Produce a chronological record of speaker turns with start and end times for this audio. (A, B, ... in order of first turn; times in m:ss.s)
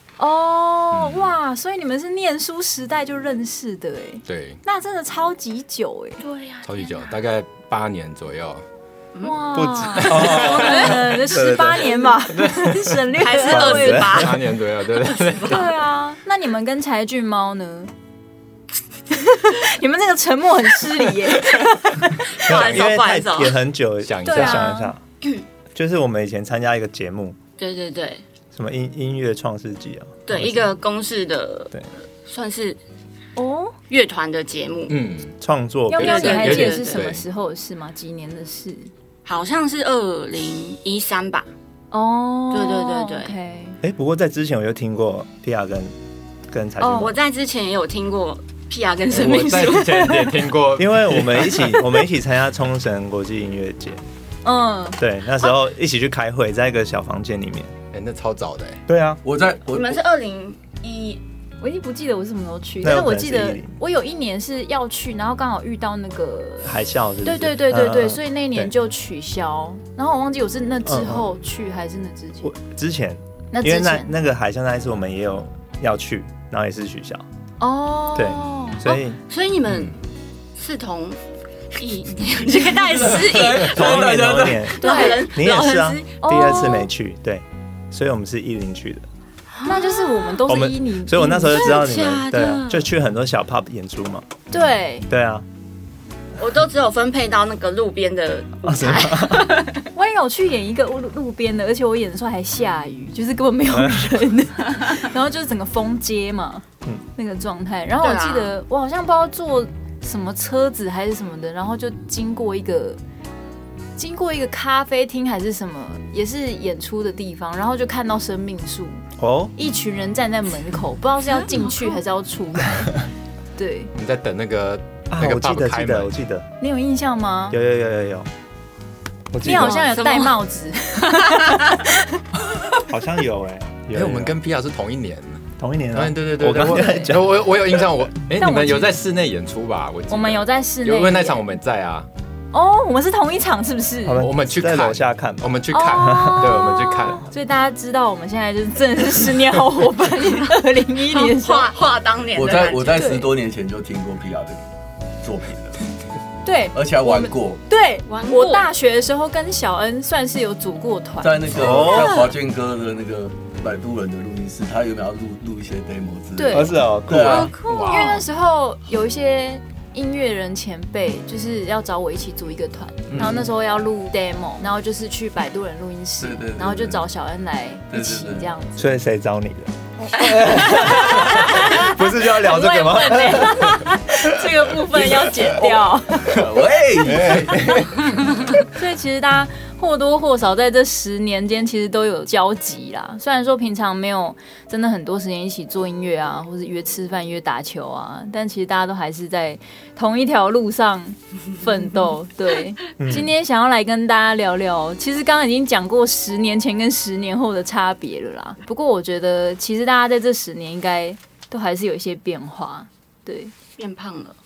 0:00.2-0:06.2 A
0:00.9-0:01.3 B
0:04.3-0:04.6 B
0:06.2-0:06.6 C
0:06.6-0:08.6 B
0:09.2-0:14.0 A
0:09.5-0:12.0 D
0:10.0-0:11.5 B
0:12.3-0:15.7 B
0:13.2-0:15.7 C
0:13.5-0:14.3 D
0:15.5-0:17.9 A
0:19.1-0:22.3 A
0:22.4-0:23.6 C
0:22.5-0:25.0 D
0:22.5-0:23.0 B
0:24.0-0:24.6 B
0:24.2-0:24.9 A
0:25.7-0:27.4 D
0:27.6-0:28.2 C
0:28.5-0:30.7 D
0:30.3-0:32.8 C
0:33.4-0:33.7 A
0:33.9-0:35.0 C
0:34.9-0:35.4 B
0:35.4-0:36.6 D
0:35.9-0:38.9 A
0:36.0-0:37.2 B
0:36.0-0:37.1 C
0:39.2-0:41.5 C
0:41.9-0:43.8 A
0:42.5-0:43.3 C
0:43.8-0:45.9 D
0:46.5-0:47.1 D
0:46.8-0:47.1 A
0:47.0-0:50.4 C
0:49.1-0:51.7 B
0:50.8-0:54.0 D
0:54.4-0:55.5 A
0:55.0-0:57.7 D
0:57.9-0:58.8 B
0:58.9-0:59.2 D
0:59.2-1:00.0 E
0:59.7-1:01.2 C
1:01.6-1:06.7 A
1:02.8-1:03.8 D
1:06.6-1:08.7 D
1:07.2-1:12.5 A
1:10.8-1:11.3 D
1:12.4-1:17.2 D
1:13.5-1:14.1 A
1:17.6-1:18.8 A
1:18.1-1:19.2 D
1:18.9-1:20.0 C
1:19.7-1:20.0 B
1:20.6-1:21.2 C
1:21.8-1:24.1 C
1:22.8-1:24.7 E
1:23.7-1:29.0 D
1:24.8-1:26.5 C
1:24.8-1:25.3 A
1:26.2-1:26.9 A
1:29.6-1:30.4 C
1:29.6-1:31.7 A
1:30.5-1:34.3 D
1:31.5-1:32.9 C
1:34.5-1:35.1 A
1:35.1-1:35.4 D
1:36.4-1:39.8 C
1:38.6-1:39.5 D
1:39.9-1:46.6 A
1:43.7-1:44.1 D
1:47.2-1:53.0 A
1:48.0-1:48.5 C
1:54.0-1:59.0 A
1:59.2-1:59.5 D
1:59.6-2:03.9 A
2:04.0-2:06.1 B
2:05.1-2:06.5 D
2:06.6-2:07.6 A
2:07.5-2:08.3 D
2:09.3-2:09.8 D
2:09.4-2:12.2 A
2:09.7-2:10.4 C
2:11.3-2:11.6 C
2:12.9-2:14.4 D
2:13.9-2:22.1 B
2:15.6-2:17.3 D
2:16.7-2:17.1 A
2:18.4-2:19.0 A
2:20.1-2:21.4 A
2:22.5-2:24.2 A
2:24.0-2:26.5 D
2:24.2-2:27.2 B
2:25.7-2:31.7 A
2:31.1-2:33.1 C
2:32.3-2:34.6 E
2:32.9-2:33.3 A
2:35.2-2:35.8 E
2:36.4-2:41.9 A
2:36.7-2:37.6 E
2:38.1-2:38.7 C
2:41.2-2:47.5 E
2:41.5-2:42.2 D
2:46.4-2:58.9 A
2:46.5-2:47.5 D
2:47.6-2:48.2 B
2:47.8-2:48.2 C
2:53.1-2:53.5 D
2:56.2-2:57.0 E
2:57.9-2:58.5 E
2:58.8-3:03.8 D
3:00.0-3:06.4 A
3:00.2-3:00.9 C
3:04.9-3:08.2 E
3:07.1-3:07.9 D
3:08.7-3:33.5 A
3:23.0-3:23.3 D
3:33.8-3:34.4 C